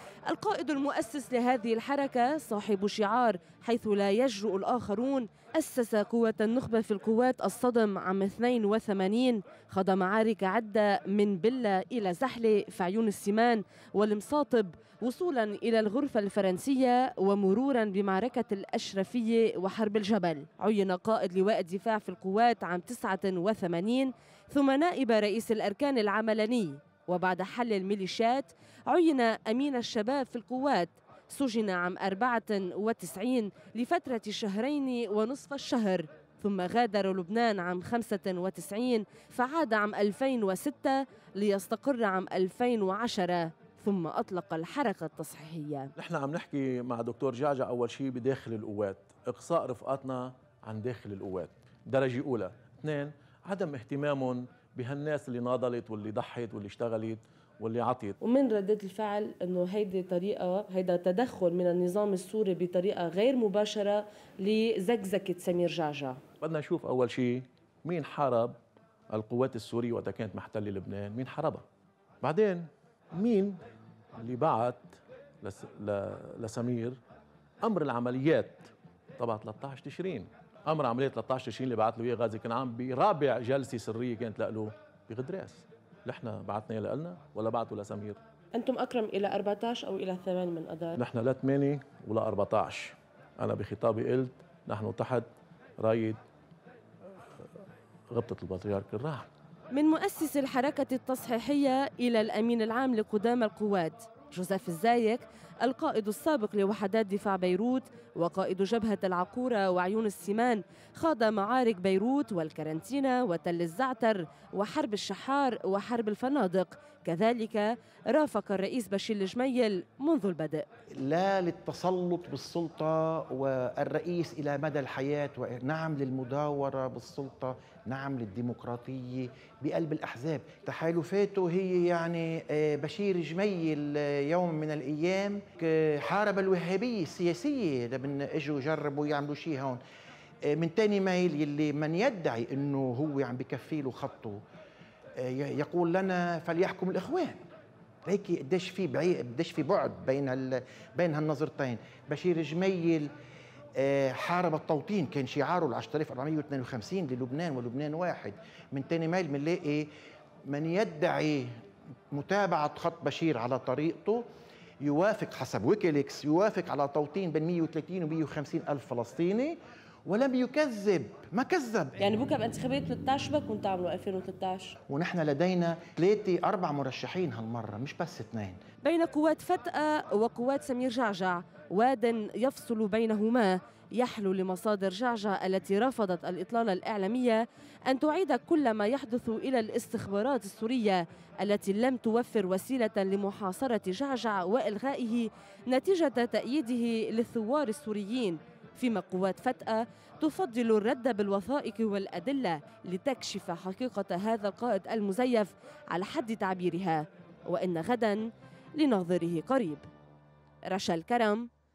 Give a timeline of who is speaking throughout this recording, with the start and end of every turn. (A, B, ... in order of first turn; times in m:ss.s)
0:00.3-0:45.9 A
0:46.0-0:58.2 B
0:58.2-1:06.2 A
1:06.4-1:08.6 B
1:09.1-1:11.6 B
1:12.2-1:13.6 B
1:14.2-1:17.0 B
1:17.6-1:28.2 B
1:28.5-1:31.0 A
1:31.0-1:35.3 B
1:35.8-1:36.2 B
1:38.1-1:39.3 B
1:39.7-2:00.6 A
2:01.0-2:19.8 C
2:20.4-2:24.4 C
2:25.2-2:27.4 C
2:28.0-2:33.1 C
2:33.8-2:39.9 C
2:40.5-2:41.5 C
2:42.1-2:44.2 C
2:44.8-2:52.0 C
2:52.0-2:54.8 A
2:54.9-2:58.6 C
2:58.8-3:28.2 A
3:28.8-3:29.8 A
3:30.7-3:31.5 A